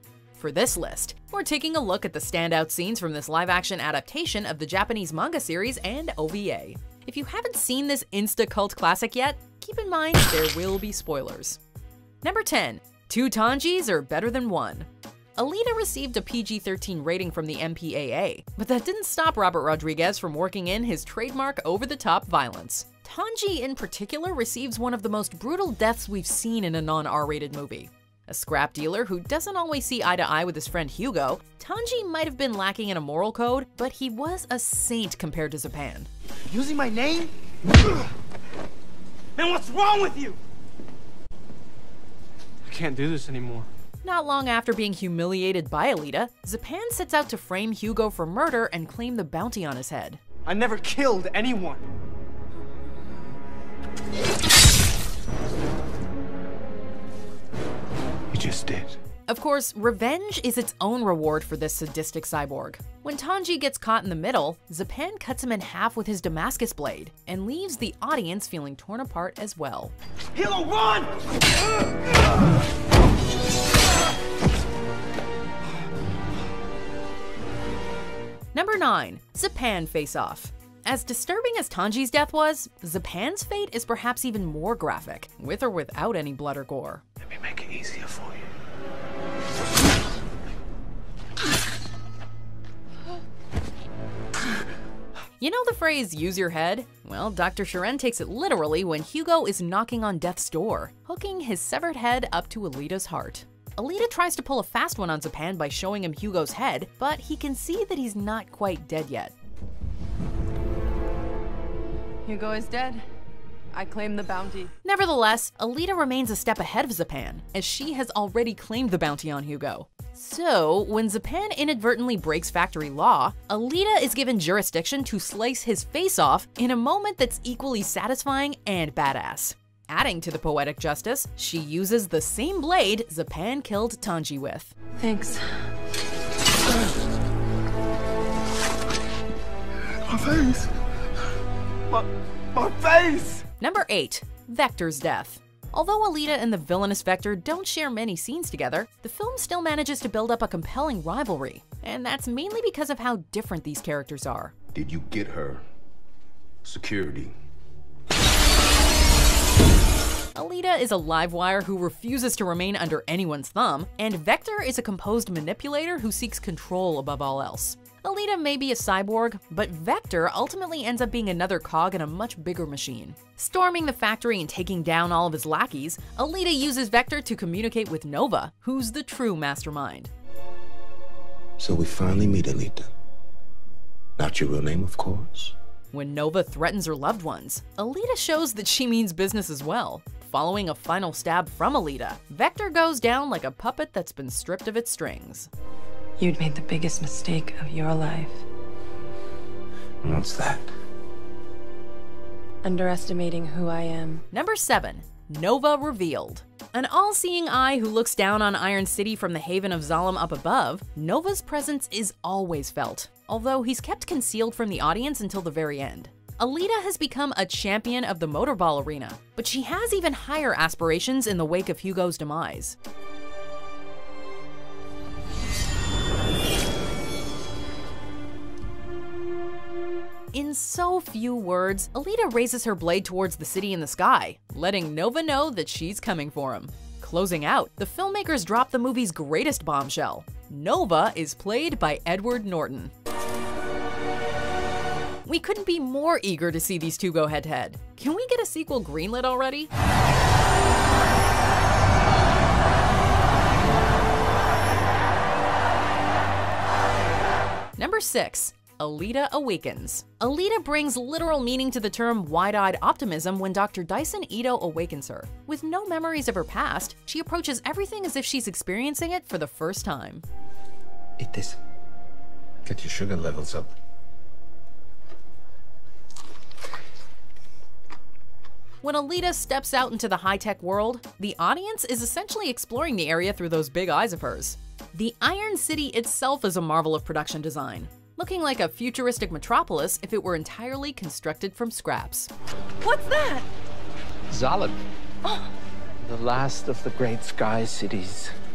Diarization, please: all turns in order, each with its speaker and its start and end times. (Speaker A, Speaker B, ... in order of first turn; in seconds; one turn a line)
Speaker A: 0.3-11.6
Speaker A: 12.2-36.1
Speaker B: 36.5-37.3
Speaker B: 39.4-40.4
Speaker B: 42.6-43.7
Speaker A: 44.0-50.2
Speaker B: 50.5-51.8
Speaker C: 58.3-58.9
Speaker A: 59.3-69.9
Speaker B: 70.3-71.1
Speaker A: 78.5-87.0
Speaker A: 95.4-109.3
Speaker D: 112.2-113.0
Speaker D: 113.7-114.7
Speaker A: 114.8-134.7
Speaker D: 135.0-135.4
Speaker D: 140.1-140.6
Speaker B: 142.5-143.4
Speaker A: 143.6-154.5
Speaker C: 154.7-155.6
Speaker C: 156.6-157.3
Speaker A: 160.3-180.1
Speaker C: 181.6-182.9
Speaker C: 184.2-185.5
Speaker A: 185.9-195.5
Speaker D: 196.2-198.4
Speaker C: 200.0-200.7
Speaker D: 202.6-204.2
Speaker A: 204.3-222.8
Speaker A: 230.3-242.9
Speaker A: 245.2-249.7
Speaker A: 257.8-270.2
Speaker C: 271.2-271.6
Speaker C: 272.6-273.7
Speaker A: 278.8-292.3
Speaker D: 292.8-293.4
Speaker E: 294.3-294.8
Speaker E: 296.1-298.2
Speaker C: 296.6-298.0